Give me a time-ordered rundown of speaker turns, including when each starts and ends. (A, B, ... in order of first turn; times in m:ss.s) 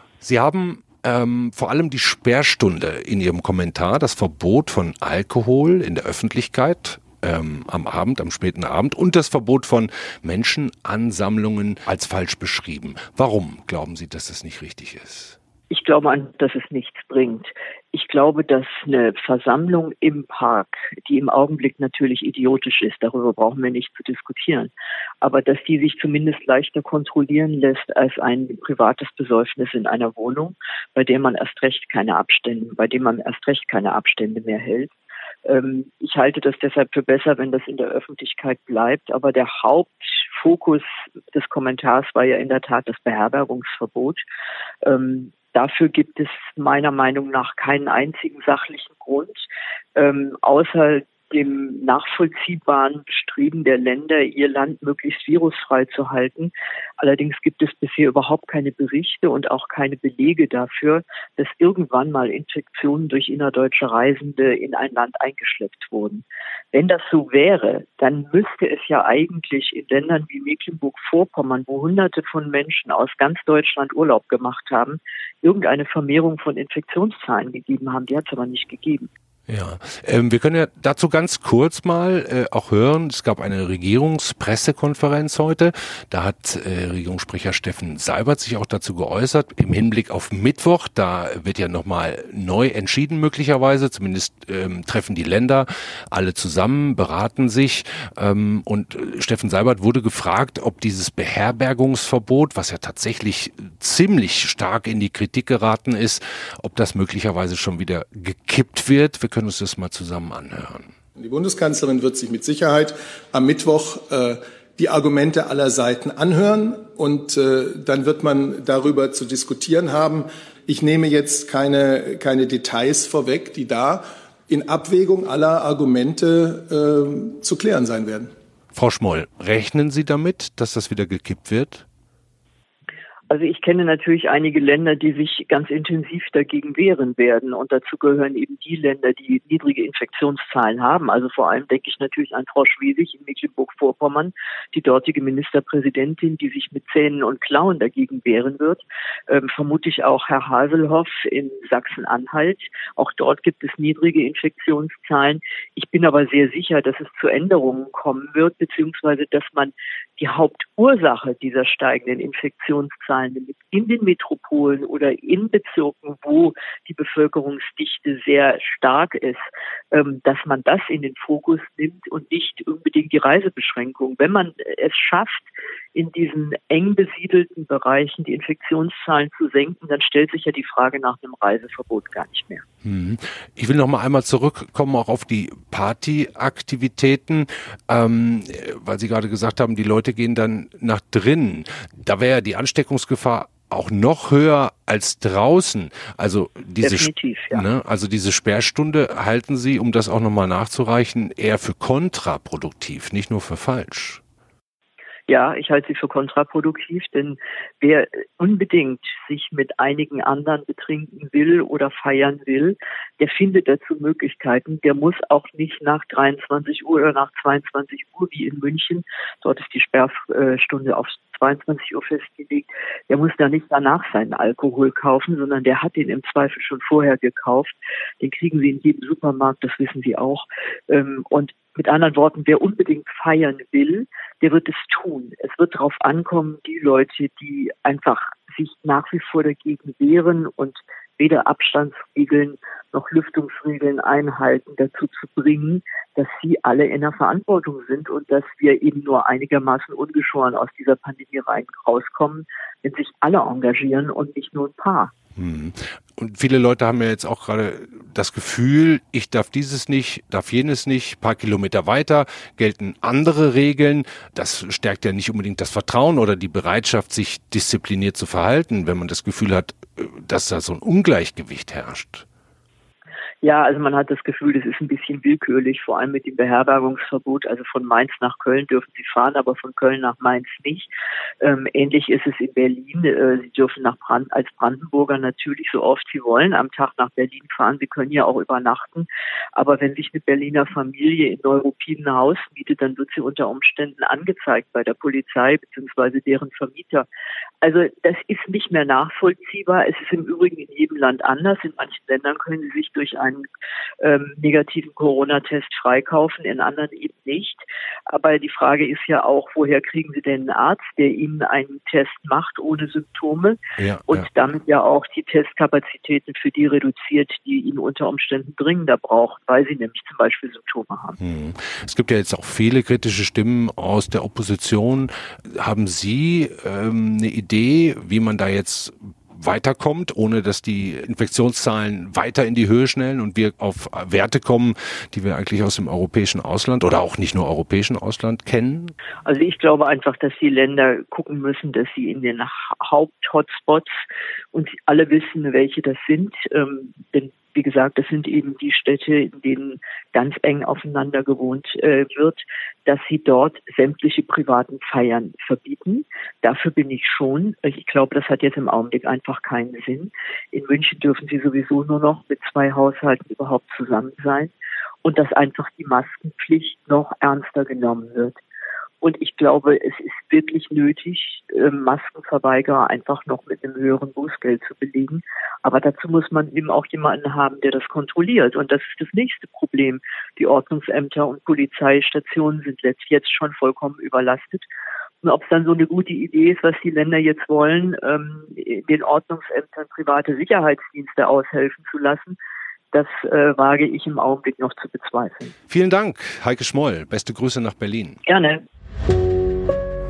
0:00.2-0:15.4 A
0:15.7-0:34.9 B
0:35.4-0:44.2 B
0:44.8-0:49.4 B
0:50.0-1:19.1 B
1:19.5-1:50.9 A
1:51.2-2:08.3 C
2:08.8-2:11.8 A
2:13.3-3:02.6 B
3:02.8-3:24.2 A
3:16.8-3:17.6 B
3:25.3-4:15.1 B
4:15.4-4:32.2 A
4:33.4-4:40.9 B
4:41.4-4:57.1 B
4:57.6-5:03.5 B
5:04.0-5:13.6 B
5:13.8-5:14.3 A
5:14.1-5:21.2 B
5:21.2-5:39.0 A
5:39.3-5:44.0 B
5:44.5-6:04.5 B
6:05.0-6:08.4 B
6:09.0-6:24.7 B
6:25.2-6:32.4 B
6:32.9-6:35.5 B
6:35.7-6:38.2 A
6:38.3-6:38.6 B